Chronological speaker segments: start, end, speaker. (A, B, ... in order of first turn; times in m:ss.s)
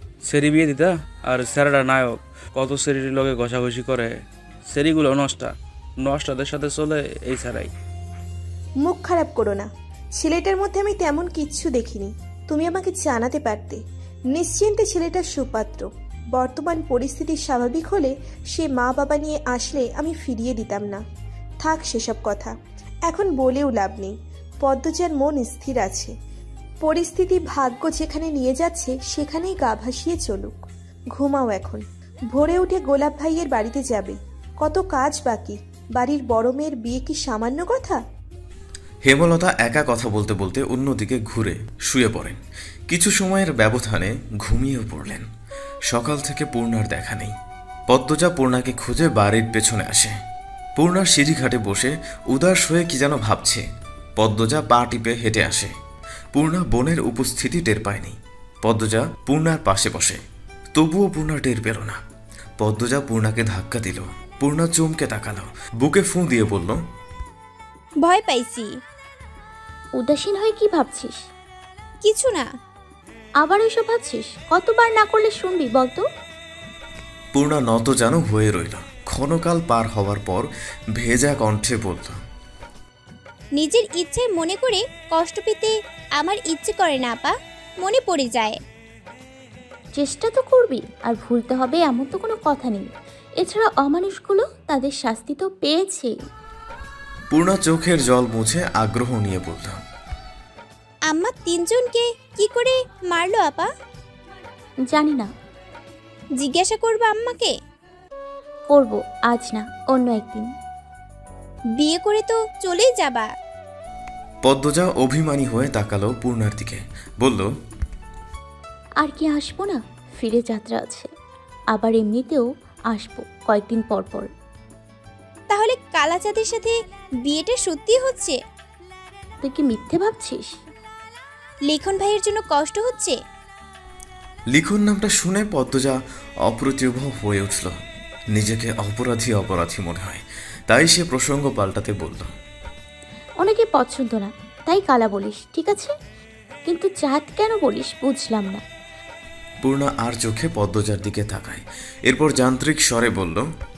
0:00.3-0:04.2 A
0:04.7-0:07.7 A
0:08.8-0:21.0 B
0:21.6-0:22.6 B
0:23.1-0:26.1 B
0:26.8-0:30.6 B
0:31.1-0:38.0 B
0:39.1-0:42.4 C
0:42.9-0:45.3 C
0:45.9-0:47.4 C
0:47.9-0:50.2 C
0:50.8-0:53.6 C
0:54.2-0:55.8 C
0:56.3-1:00.2 C
1:00.7-1:02.0 C
1:02.6-1:06.8 C
1:08.0-1:08.7 D
1:10.0-1:11.2 E
1:12.0-1:12.5 D
1:13.4-1:16.0 E
1:17.3-1:22.2 C
1:23.6-1:28.6 D
1:30.0-1:36.1 E
1:37.3-1:39.8 C
1:41.1-1:43.7 D
1:44.9-1:45.3 E
1:46.4-1:47.5 D
1:48.7-1:50.5 E
1:51.8-1:53.3 D
1:54.4-1:57.5 C
1:59.0-2:01.1 E
2:01.7-2:04.3 E
2:05.5-2:08.4 D
2:09.4-2:10.5 E
2:11.7-2:13.2 D
2:14.5-2:17.8 C
2:18.3-2:22.3 C
2:23.4-2:25.9 E
2:26.7-2:28.6 E
2:29.6-2:33.5 C